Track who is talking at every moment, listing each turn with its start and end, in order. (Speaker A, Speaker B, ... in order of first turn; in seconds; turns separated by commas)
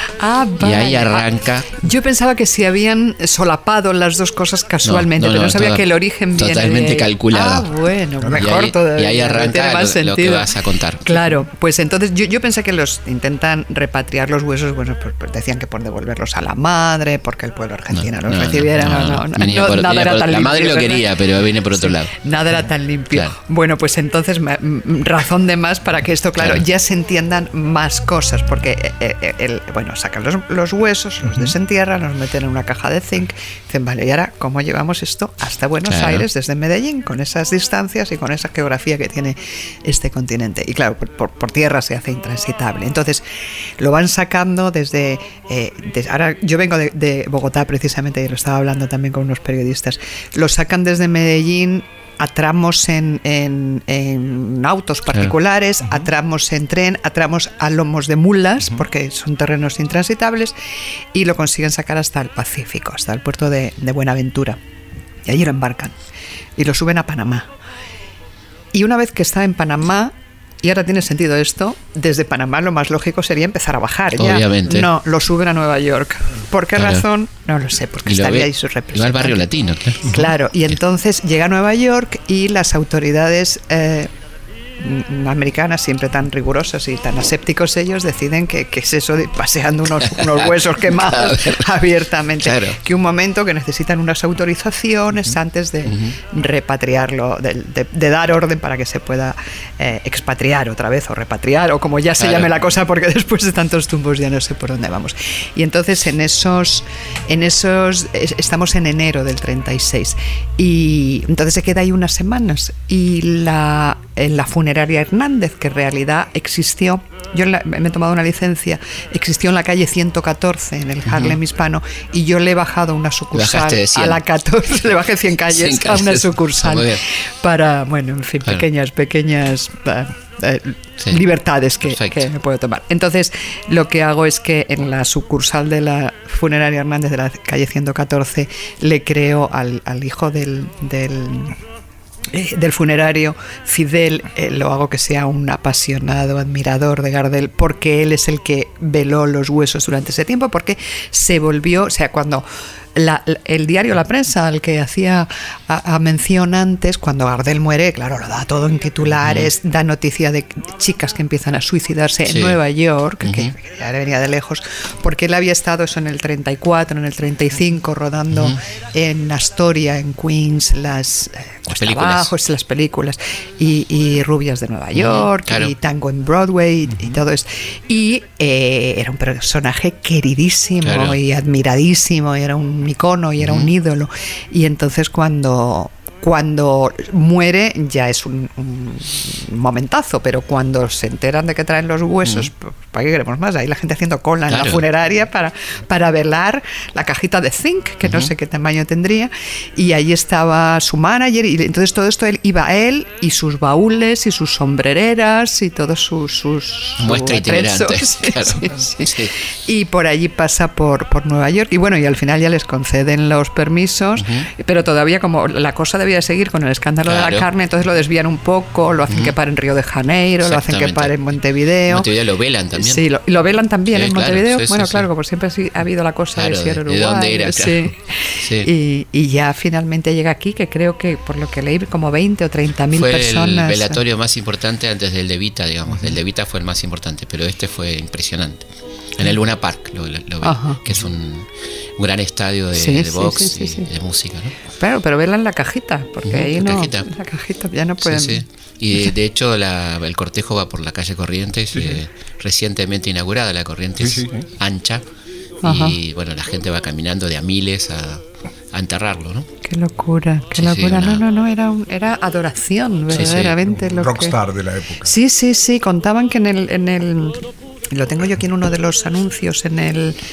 Speaker A: 0.2-10.5, Speaker B: 0.6-1.8, Speaker B: 4.8-7.7, Speaker B: 8.3-11.2, Speaker A: 11.0-21.1, Speaker B: 17.9-22.1, Speaker A: 21.7-43.2, Speaker B: 35.9-36.2, Speaker A: 43.8-60.5, Speaker A: 61.1-64.6, Speaker A: 65.2-66.0, Speaker A: 66.6-67.5, Speaker A: 68.7-79.5, Speaker B: 74.2-74.9, Speaker B: 76.8-77.0, Speaker B: 78.0-80.3, Speaker A: 80.0-84.1, Speaker A: 84.8-141.6, Speaker B: 90.8-91.6, Speaker B: 92.4-92.8, Speaker B: 95.9-96.1, Speaker B: 102.2-102.5, Speaker B: 121.1-121.4, Speaker B: 123.3-124.2, Speaker B: 125.5-127.0, Speaker B: 131.8-132.2, Speaker A: 142.3-222.1, Speaker B: 162.3-162.6, Speaker B: 163.2-163.5, Speaker B: 168.3-168.6, Speaker B: 171.7-172.3, Speaker B: 174.9-175.7, Speaker B: 180.8-181.2, Speaker B: 183.4-183.7, Speaker B: 194.5-194.8, Speaker B: 198.0-198.3, Speaker B: 207.0-209.3, Speaker B: 214.2-214.5, Speaker B: 217.1-217.5, Speaker B: 220.4-221.3, Speaker B: 221.9-223.0, Speaker A: 222.8-234.0, Speaker B: 223.9-225.1, Speaker B: 226.3-228.7, Speaker B: 232.9-244.5, Speaker A: 240.4-240.8, Speaker A: 242.7-243.9, Speaker A: 244.8-248.4, Speaker B: 246.2-247.1, Speaker B: 248.0-255.0, Speaker C: 254.0-254.4, Speaker A: 255.6-255.9, Speaker B: 255.6-259.5, Speaker A: 259.6-264.4, Speaker B: 260.6-261.2, Speaker B: 263.1-263.5, Speaker C: 263.6-265.1, Speaker A: 265.0-270.2